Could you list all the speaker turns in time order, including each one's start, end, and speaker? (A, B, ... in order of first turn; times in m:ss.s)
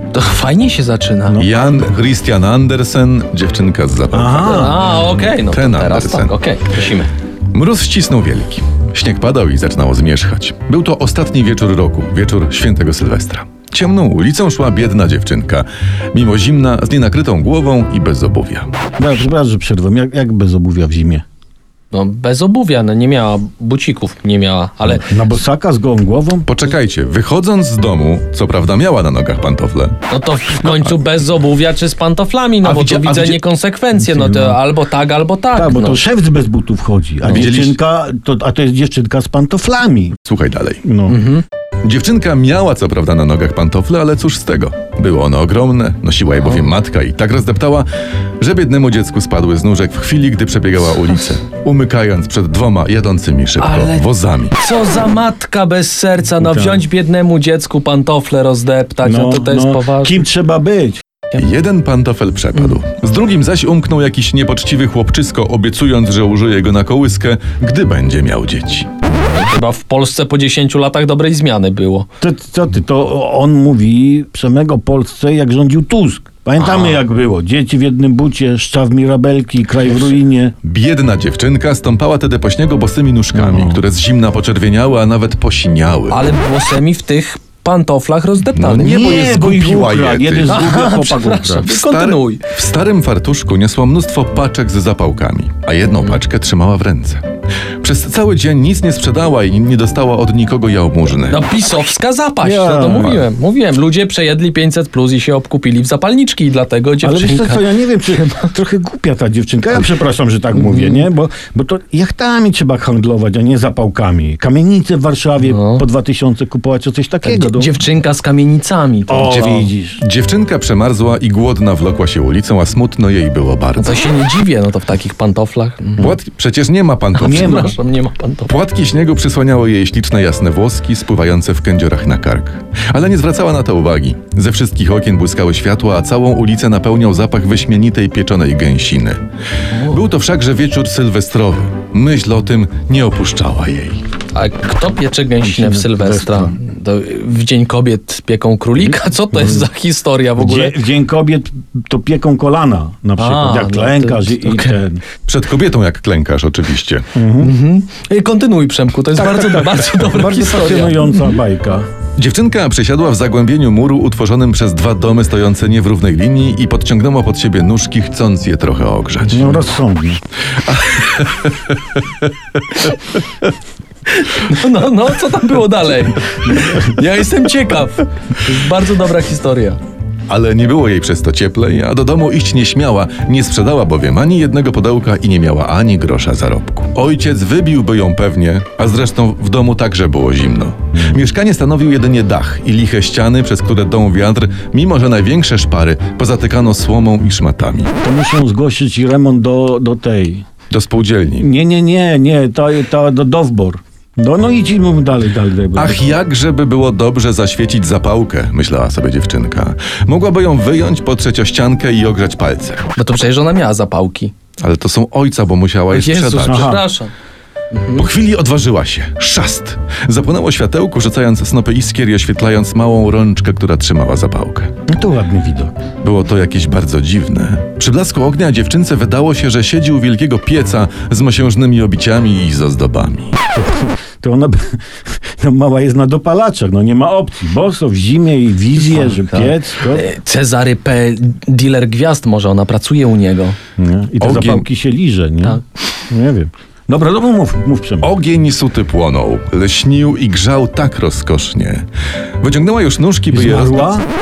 0:00.1-0:01.5 A
0:01.3-0:01.7 B
0:01.4-0:06.4 C
0:04.1-0:04.8 B
0:04.4-0:07.1 A
0:07.5-0:18.7 C
0:19.0-0:21.2 B
0:21.9-0:25.2 A
0:24.9-0:26.5 B
0:26.5-0:30.0 C
0:30.1-0:36.0 A
0:30.6-0:30.9 C
0:32.6-0:33.4 C
0:34.0-0:34.6 B
0:35.5-0:40.2 B
0:37.3-0:37.8 C
0:40.3-0:40.8 C
0:40.8-0:41.2 B
0:41.1-0:41.4 A
0:41.8-0:47.9 C
0:48.4-0:54.6 C
0:53.6-0:54.0 A
0:54.6-1:00.3 A
0:56.4-0:56.8 B
0:59.0-1:01.0 B
1:01.3-1:08.9 C
1:09.3-1:12.1 A
1:12.2-1:20.6 B
1:16.6-1:17.0 A
1:20.6-1:26.2 C
1:23.3-1:23.8 B
1:26.1-1:29.1 A
1:28.6-1:30.7 C
1:28.8-1:31.7 B
1:30.5-1:32.4 A
1:31.6-1:37.2 C
1:37.8-1:41.5 C
1:41.3-1:48.5 A
1:42.4-1:43.3 B
1:47.0-1:57.8 B
1:50.6-1:51.1 A
1:55.4-1:55.8 A
1:57.2-1:59.4 A
1:59.1-2:00.0 B
1:59.2-2:04.0 C
2:03.8-2:06.1 A
2:06.0-2:07.8 C
2:07.2-2:08.6 A
2:07.2-2:07.8 B
2:08.5-2:19.2 C
2:19.7-2:20.0 A
2:19.8-2:24.0 C
2:24.3-2:30.8 A
2:25.4-2:26.6 B
2:29.3-2:29.7 B
2:30.4-2:35.0 B
2:33.2-2:34.8 A
2:35.3-2:37.1 C
2:37.1-2:37.5 B
2:37.4-2:41.3 A
2:39.2-2:41.9 B
2:42.2-2:49.6 C
2:49.3-2:50.2 B
2:50.6-2:53.2 C
2:54.1-2:59.8 A
3:00.3-3:17.9 C
3:18.0-3:20.5 B
3:20.7-3:21.5 C
3:21.4-3:26.1 B
3:25.8-3:32.8 C
3:33.0-3:34.3 A
3:34.6-3:36.8 C
3:35.9-3:37.1 A
3:36.4-3:36.8 B
3:37.7-3:38.1 A
3:37.9-3:44.7 C
3:44.9-3:45.7 B
3:46.0-3:53.4 C
3:53.5-3:54.6 B
3:55.2-4:00.0 B
3:58.8-4:03.6 A
4:03.8-4:08.1 B
4:04.2-4:04.7 C
4:08.0-4:11.9 C
4:12.4-4:14.0 C
4:13.3-4:14.1 B